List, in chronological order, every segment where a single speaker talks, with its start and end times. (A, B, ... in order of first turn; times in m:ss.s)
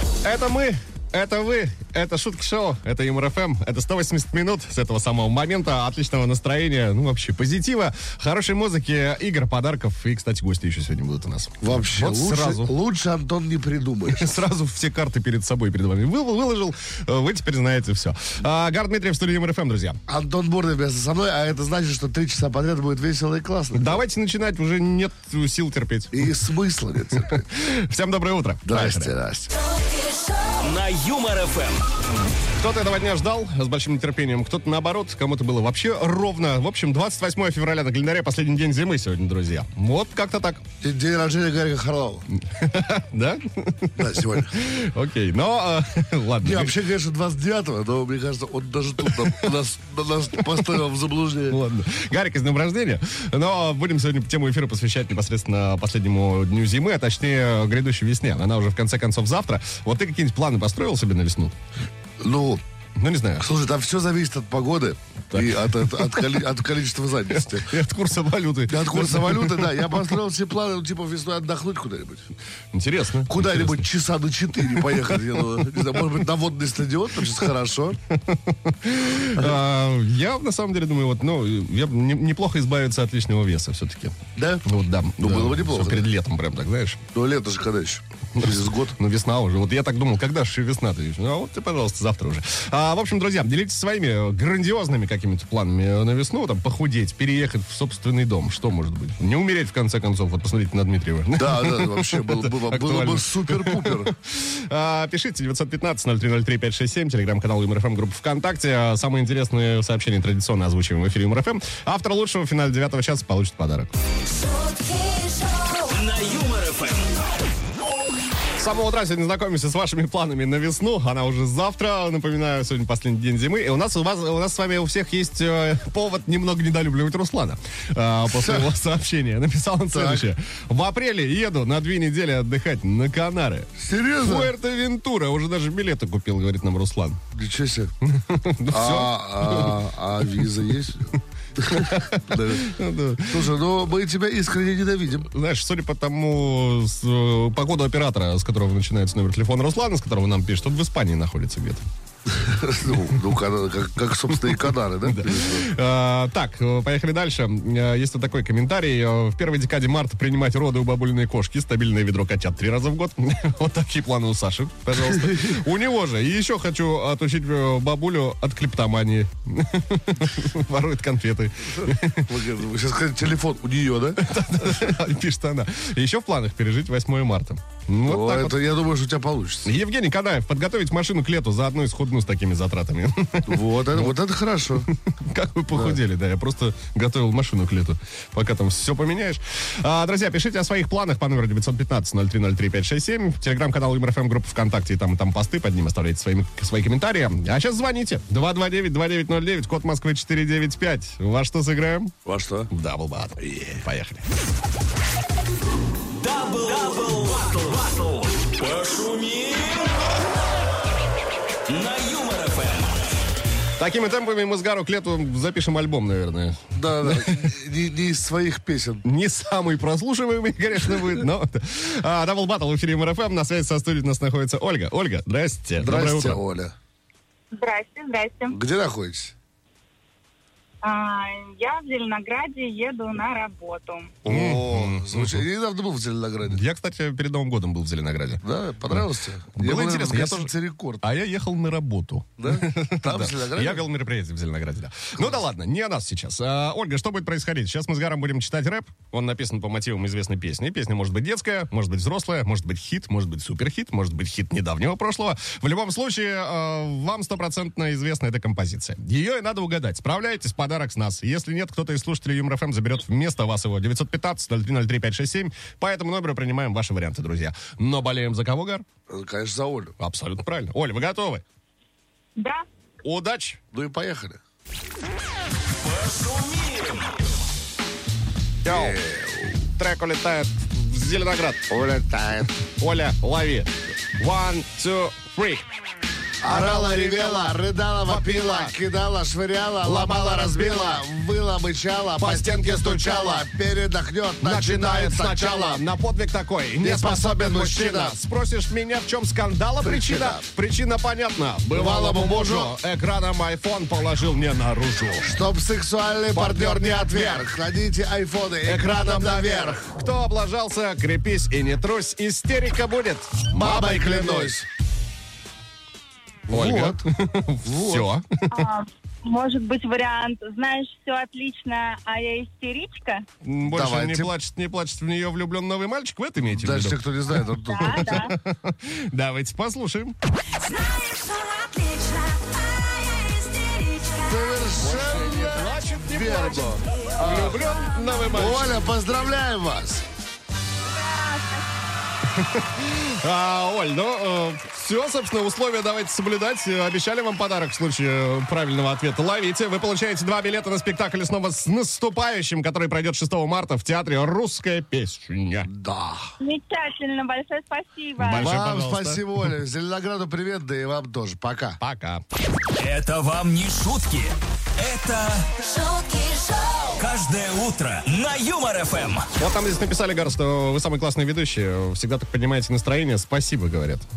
0:00.2-0:12.7 A
0:11.6-0:14.3 B
0:14.1-0:20.0 A
0:20.1-0:24.0 B
0:23.7-0:26.3 A
0:26.1-0:27.4 B
0:27.1-0:29.2 A
0:28.6-0:29.5 B
0:29.7-0:30.6 C
0:30.6-0:31.9 D
0:32.6-0:40.6 A
0:40.8-0:42.3 B
0:42.4-0:46.8 A
0:44.0-0:44.6 B
0:46.4-0:51.6 B
0:51.5-1:01.6 A
1:02.2-1:02.6 B
1:03.0-1:03.5 A
1:03.4-1:07.7 B
1:05.3-1:06.3 A
1:07.3-1:10.1 A
1:08.7-1:12.3 B
1:12.7-1:13.9 A
1:13.3-1:18.0 B
1:14.5-1:16.0 A
1:18.1-1:27.0 A
1:24.4-1:24.7 B
1:25.2-1:26.1 B
1:27.1-1:29.0 B
1:28.4-1:53.9 A
1:41.4-1:44.1 B
1:54.3-1:55.9 C
1:55.9-1:57.1 D
1:58.6-2:17.2 A
2:08.3-2:08.7 B
2:09.9-2:10.3 B
2:13.8-2:14.5 B
2:17.3-2:17.9 B
2:18.0-2:19.8 A
2:18.7-2:25.3 B
2:21.6-2:23.5 A
2:25.3-2:31.8 A
2:32.3-2:35.7 B
2:35.0-2:52.4 A
2:51.8-2:54.3 B
2:54.2-2:58.6 A
2:58.0-2:59.7 B
2:59.6-3:04.1 A
3:03.5-3:04.9 B
3:04.9-3:22.1 A
3:05.7-3:06.0 B
3:22.2-3:22.7 B
3:22.7-3:24.2 A
3:26.2-3:30.1 D
3:31.7-3:33.0 D
3:33.8-3:37.5 A
3:36.8-3:39.0 B
3:39.0-3:46.4 A
3:45.8-3:46.7 B
3:47.5-3:48.6 E
3:48.5-3:49.3 B
3:50.8-3:54.2 E
3:54.2-3:56.6 B
3:54.3-3:55.5 A
3:56.5-4:00.5 A
3:58.4-4:01.0 B
4:01.0-4:28.8 A
4:02.4-4:03.9 B
4:29.1-4:29.9 B
4:30.0-4:31.4 A
4:32.4-4:32.6 E
4:33.0-4:33.6 A
4:33.7-4:34.4 B
4:35.8-4:37.2 D
4:38.6-4:39.0 A
4:38.6-4:39.6 B
4:39.8-4:41.7 A
4:41.7-4:42.5 B
4:42.8-4:45.6 A
4:46.4-4:55.8 B
4:46.5-4:47.5 A
4:48.1-4:48.7 A
4:49.8-4:51.1 A
4:52.2-4:53.5 A
4:54.4-5:05.4 A
4:56.8-4:58.2 B
4:59.8-5:00.4 B
5:01.7-5:02.8 B
5:05.2-5:09.9 B
5:06.3-5:07.5 A
5:08.6-5:14.6 A
5:13.5-5:14.7 B
5:16.5-5:17.0 B
5:16.5-5:18.7 A
5:17.6-5:18.1 B
5:18.5-5:23.3 E
5:23.4-5:30.2 A
5:23.6-5:24.3 B
5:26.4-5:28.2 B
5:27.7-5:28.3 E
5:30.6-5:35.6 C
5:34.2-5:37.6 B
5:34.8-5:38.8 A
5:37.6-5:38.4 C
5:38.3-5:40.0 B
5:40.9-5:41.6 E
5:42.3-5:55.7 A
5:55.7-5:56.3 B
5:56.4-5:58.5 E
5:58.2-5:59.4 A
5:58.4-6:01.8 B
6:01.8-6:02.2 A
6:02.8-6:05.5 D
6:05.6-6:07.0 C
6:07.0-6:09.3 D
6:09.4-6:14.1 A